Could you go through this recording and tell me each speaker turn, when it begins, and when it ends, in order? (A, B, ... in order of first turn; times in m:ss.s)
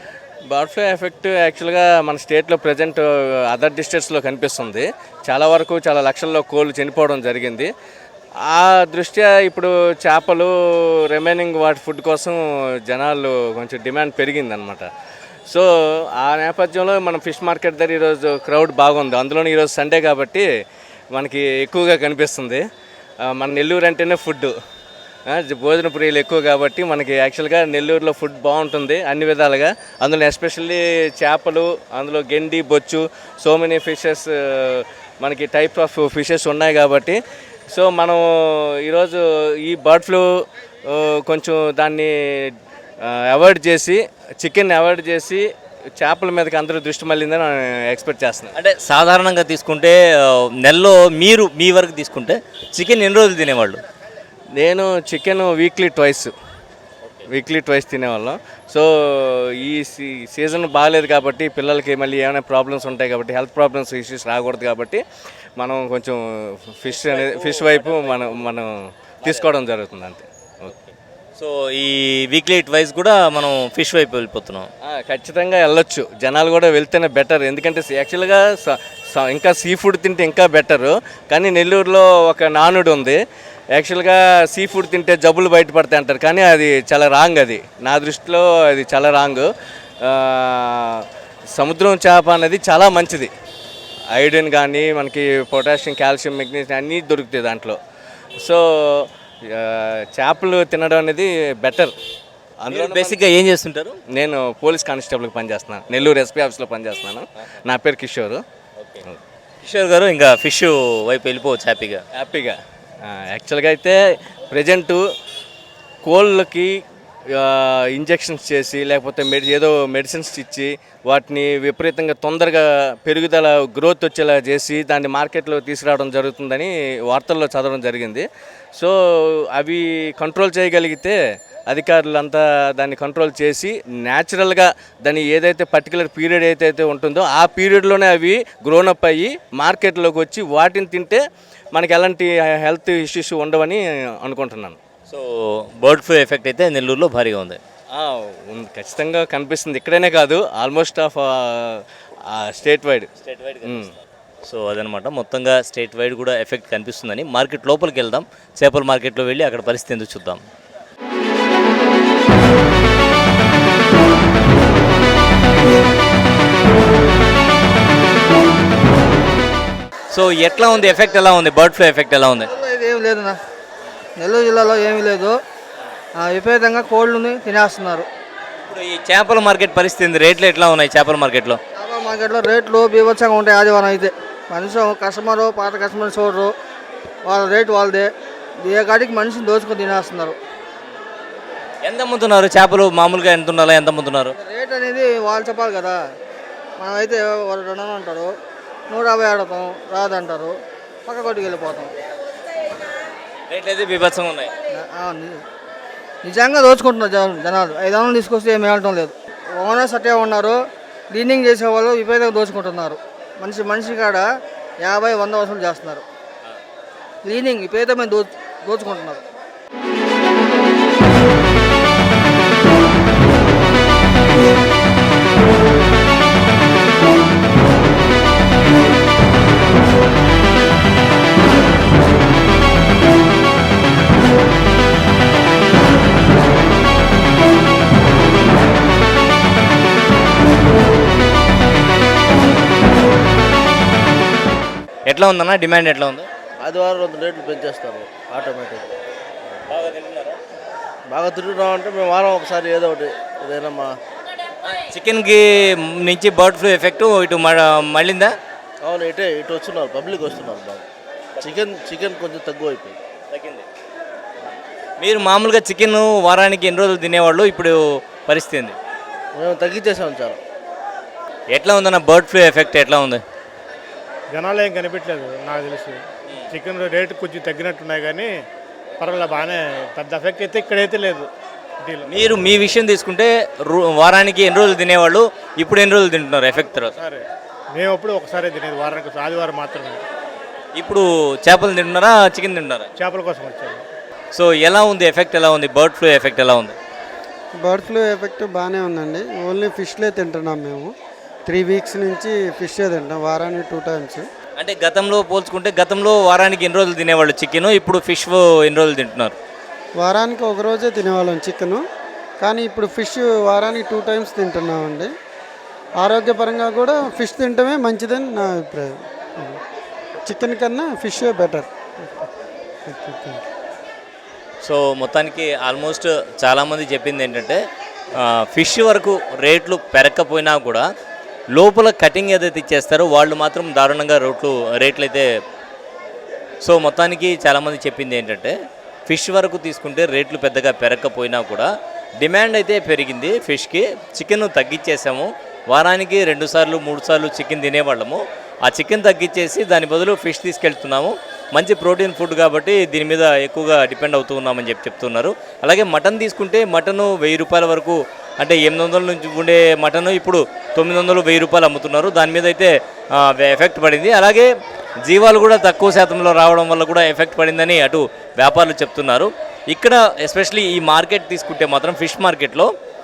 0:00.5-0:07.7 A
0:08.5-0:14.9 A
0:15.5-0:20.4 A
0:21.1-0:22.6 A
0:23.2-0:24.5 A
0:25.3-0:37.2 A
0:37.7-0:40.3 A
0:40.9-0:45.5 A
0:46.0-0:48.5 A
0:48.6-0:53.8 B
0:54.6-0:56.3 A
0:57.3-1:05.0 A
1:05.6-1:08.7 A
1:07.0-1:08.4 B
1:09.2-1:09.5 B
1:09.2-1:10.3 A
1:10.7-1:14.7 B
1:14.8-1:23.2 A
1:23.8-1:29.5 A
1:30.0-1:33.3 A
1:34.1-1:37.8 A
1:38.4-1:41.9 A
1:42.6-1:43.2 A
1:42.7-1:44.0 B
1:44.1-1:48.4 A
1:48.8-1:49.0 B
1:49.6-1:52.0 B
1:52.2-1:54.0 A
1:54.5-1:55.0 A
1:56.0-1:56.8 A
1:57.3-2:08.2 A
2:08.8-2:11.2 A
2:11.7-2:21.2 A
2:21.7-2:24.8 A
2:25.1-2:27.6 B
2:27.9-2:33.1 A
2:33.2-2:33.9 B
2:33.6-2:33.9 A
2:34.4-2:40.4 B
2:50.1-2:52.5 B
2:52.5-2:53.4 C
2:54.2-2:55.4 C
2:56.2-2:58.1 C
2:58.7-3:01.6 B
3:01.8-3:06.5 C
3:07.3-3:08.1 C
3:08.6-3:10.4 C
3:11.8-3:14.3 B
3:14.4-3:16.0 C
3:16.8-3:18.3 C
3:18.9-3:21.9 C
3:23.5-3:24.5 B
3:24.8-3:25.4 C
3:26.2-3:30.6 C
3:31.1-3:34.3 C
3:34.8-3:36.0 C
3:37.2-3:39.2 C
4:05.1-4:06.3 B
4:06.6-4:08.9 D
4:09.7-4:10.4 B
4:11.1-4:14.0 D
4:14.6-4:18.3 B
4:18.8-4:20.9 D
4:21.4-4:23.0 D
4:23.3-4:23.7 B
4:25.0-4:28.8 B
4:29.4-4:30.4 D
4:31.5-4:33.2 B
4:34.3-4:36.0 E
4:36.5-4:38.3 E
4:39.0-4:41.3 E
4:41.8-4:42.1 E
4:42.1-4:46.9 B
4:47.0-4:47.2 E
4:47.8-4:50.0 E
4:50.8-4:52.9 B
4:53.0-4:53.8 E
4:54.3-4:56.8 B
4:57.6-5:00.9 F
5:01.5-5:04.3 F
5:04.6-5:09.4 B
5:10.0-5:11.8 F
5:12.4-5:15.1 F
5:16.0-5:19.6 F
5:20.3-5:22.3 F
5:22.9-5:23.4 F
5:24.6-5:27.6 B
5:28.1-5:30.9 B
5:31.5-5:35.3 B
5:36.6-5:38.6 B
5:39.1-6:04.5 B
6:05.0-6:12.7 B